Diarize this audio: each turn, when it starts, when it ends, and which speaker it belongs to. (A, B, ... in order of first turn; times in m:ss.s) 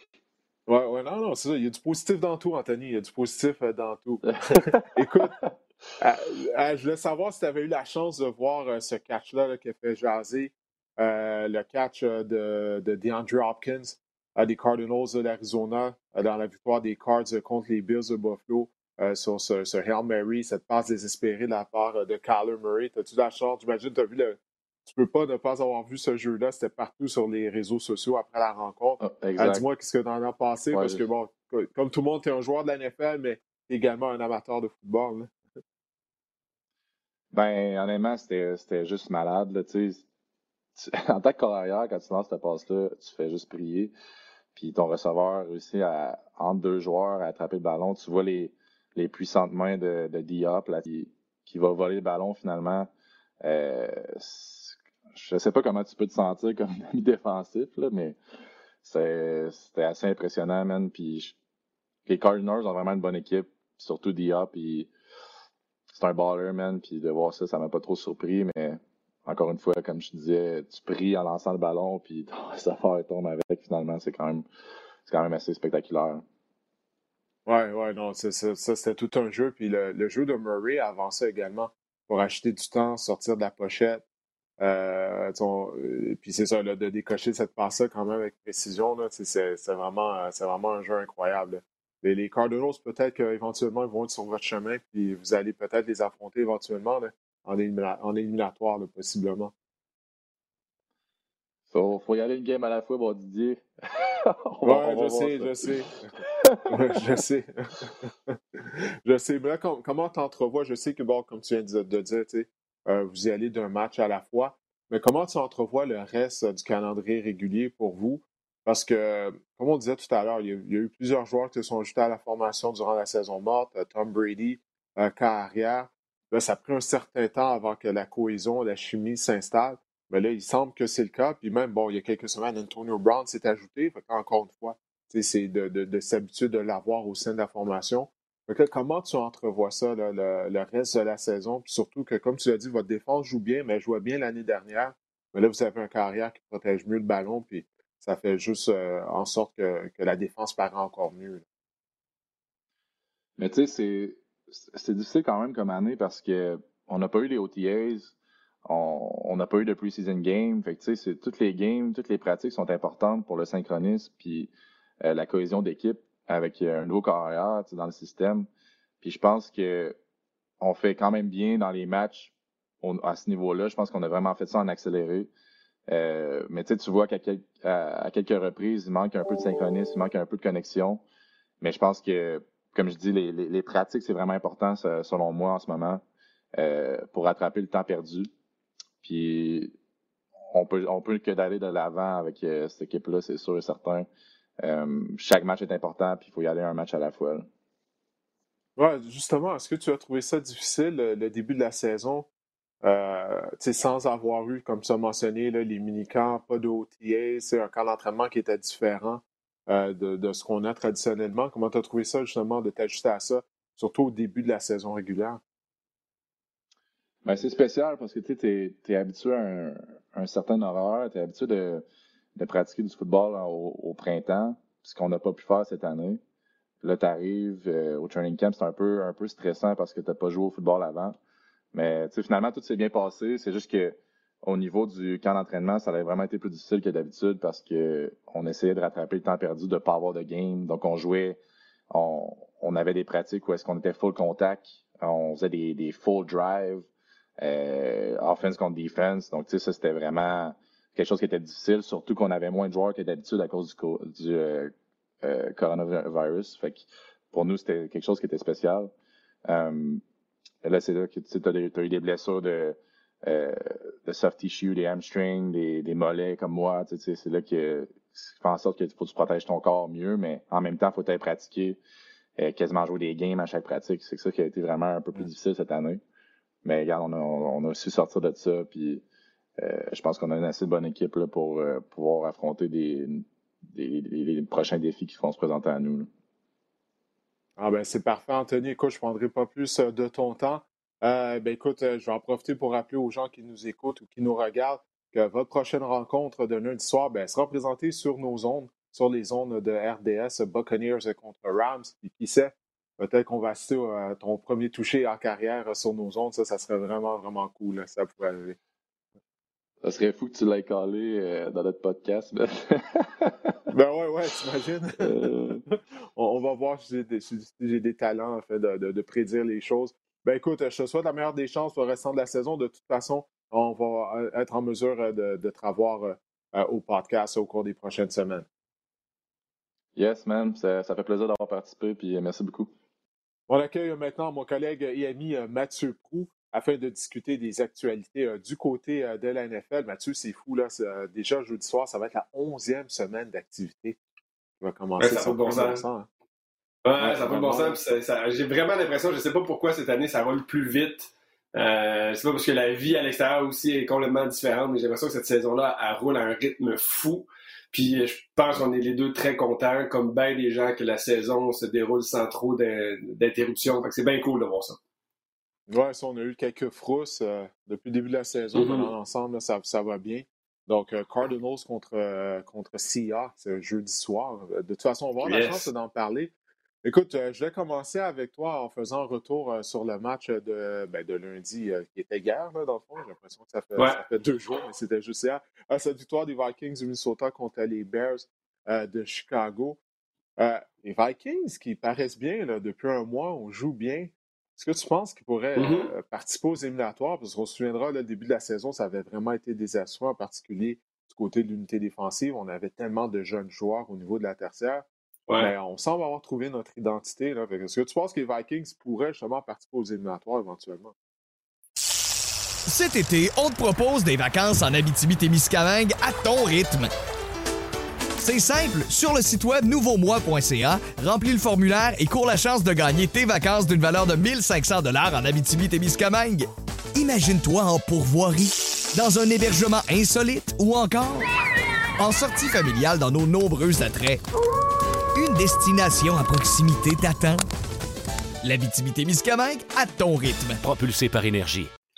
0:00.7-0:05.4 A
0:06.0-0:35.3 A
0:29.0-0:29.6 B
0:30.7-0:31.0 B
0:37.3-0:40.0 B
0:40.8-0:43.9 B
0:44.6-0:52.9 B
0:53.4-0:58.2 B
0:58.8-1:01.4 B
1:02.1-1:04.9 B
1:05.9-1:14.5 B
1:15.1-1:16.2 B
1:17.5-1:24.0 A
1:24.6-1:39.5 A
1:41.7-1:45.6 B
1:44.6-1:46.1 A
1:46.3-1:46.6 B
1:46.7-2:31.4 A
2:33.4-2:38.1 B
2:38.6-2:48.5 B
2:49.0-2:50.0 B
2:50.6-2:55.3 B
2:55.9-3:01.0 B
3:01.6-3:06.0 B
3:06.6-3:08.3 B
3:09.0-3:09.7 B
3:10.5-3:14.1 B
3:14.6-3:17.5 B
3:18.8-3:22.3 A
3:22.8-3:35.4 A
3:37.2-3:41.8 B
3:42.4-3:46.2 B
3:46.8-3:51.2 B
3:51.7-4:01.4 B
4:01.9-4:06.9 B
4:07.4-4:18.9 B
4:19.4-4:20.0 B
4:20.6-4:31.8 B
4:32.4-4:36.0 B
4:36.6-4:39.0 B
4:39.6-4:46.1 B
4:47.6-5:08.6 A
5:09.8-5:13.6 B
5:13.7-5:15.2 A
5:15.0-5:15.6 B
5:16.2-5:28.5 A
5:30.0-5:32.7 B
5:33.5-5:44.0 A
5:44.6-5:46.1 A
5:45.0-5:45.8 C
5:46.8-6:04.8 C
5:47.0-5:47.8 A
6:05.7-6:16.3 A
6:08.5-6:08.9 C
6:15.2-6:15.7 C
6:16.8-6:29.8 A
6:30.4-6:44.9 A
6:35.6-6:35.9 C
6:45.4-6:51.0 A
6:52.7-6:56.9 D
6:58.2-7:11.3 D
7:12.0-7:14.2 D
7:15.2-7:17.4 D
7:18.4-7:21.7 D